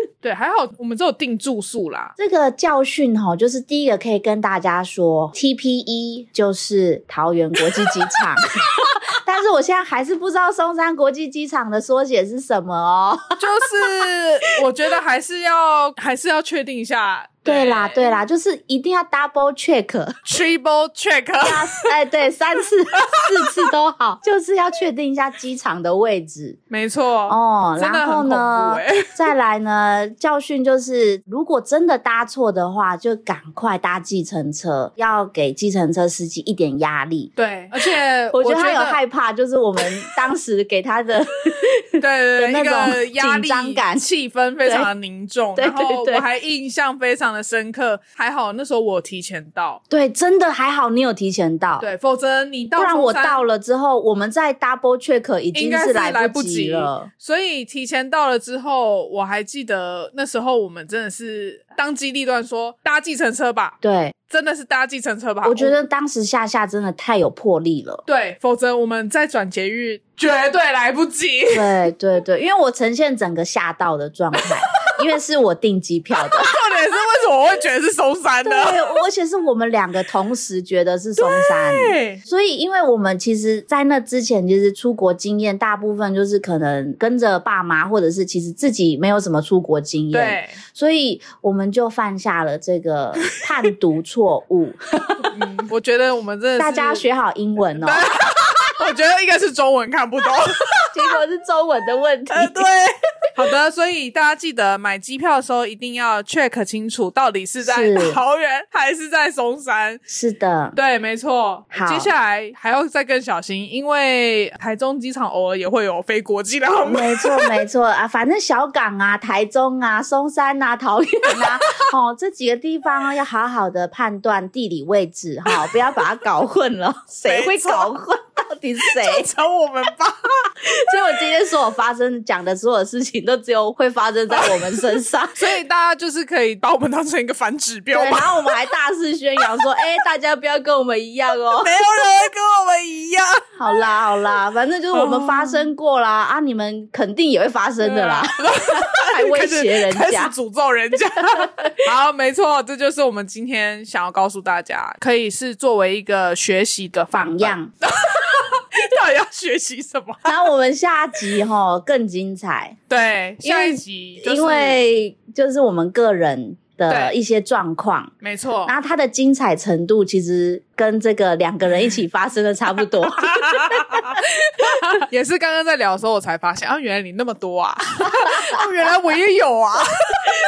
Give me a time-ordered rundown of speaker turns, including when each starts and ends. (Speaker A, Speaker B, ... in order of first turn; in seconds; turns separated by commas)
Speaker A: 0.2-2.1, Speaker B: 2.2-13.4, Speaker A: 13.4-18.2, Speaker B: 17.4-20.2, Speaker A: 20.2-21.9, Speaker B: 21.4-26.6, Speaker A: 26.7-29.1, Speaker B: 27.3-44.1, Speaker A: 37.4-39.0, Speaker A: 42.0-49.8, Speaker B: 44.6-44.9, Speaker B: 45.5-46.2, Speaker B: 49.9-51.9, Speaker A: 51.8-53.5, Speaker B: 52.8-57.1, Speaker A: 55.5-65.7, Speaker B: 63.8-64.1, Speaker B: 65.4-68.0, Speaker A: 68.0-71.8, Speaker B: 71.5-76.5, Speaker A: 76.2-78.8, Speaker B: 78.4-95.2, Speaker A: 81.2-82.2, Speaker A: 90.1-90.6, Speaker A: 95.2-97.0, Speaker B: 96.6-98.1, Speaker A: 97.8-100.8, Speaker B: 100.9-102.7, Speaker A: 102.3-110.0, Speaker B: 107.6-108.2, Speaker B: 110.1-110.8, Speaker A: 110.7-117.5, Speaker B: 111.7-112.1, Speaker B: 116.8-129.3, Speaker A: 127.2-127.9, Speaker A: 128.8-130.2, Speaker B: 130.7-135.5, Speaker A: 135.4-138.5, Speaker B: 137.9-141.7, Speaker A: 141.6-143.4, Speaker B: 143.6-150.3, Speaker A: 144.9-145.7, Speaker A: 147.8-160.5, Speaker B: 157.1-157.7, Speaker B: 160.2-162.8, Speaker A: 162.9-164.8, Speaker B: 163.4-168.1, Speaker A: 166.9-167.1, Speaker A: 168.2-168.7, Speaker B: 168.7-174.2, Speaker A: 173.2-180.2